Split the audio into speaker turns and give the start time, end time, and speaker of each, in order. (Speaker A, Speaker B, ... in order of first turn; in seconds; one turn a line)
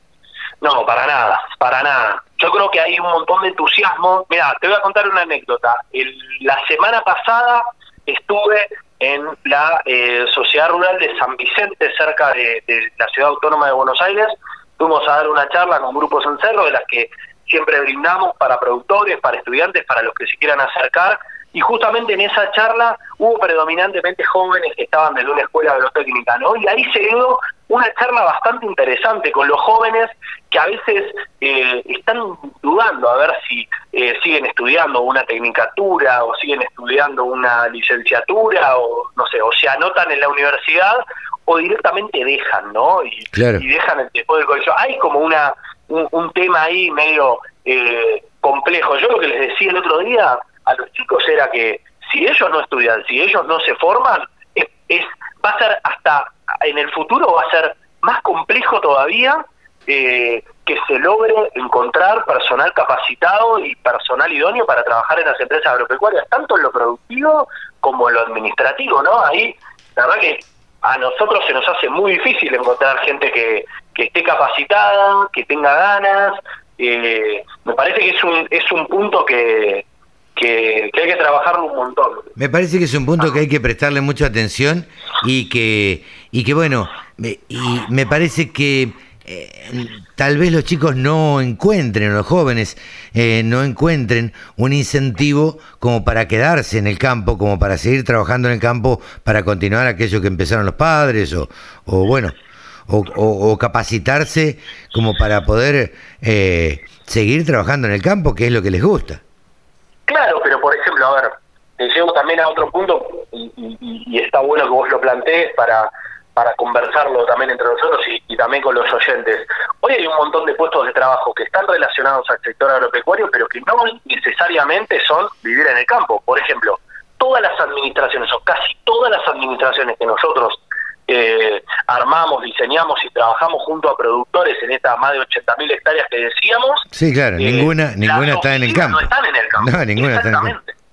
Speaker A: 0.6-79.8
Speaker B: 43.3-43.6
Speaker A: 80.3-82.3
Speaker B: 82.4-102.3
Speaker B: 102.9-109.2
Speaker A: 110.1-140.7
Speaker B: 136.9-140.6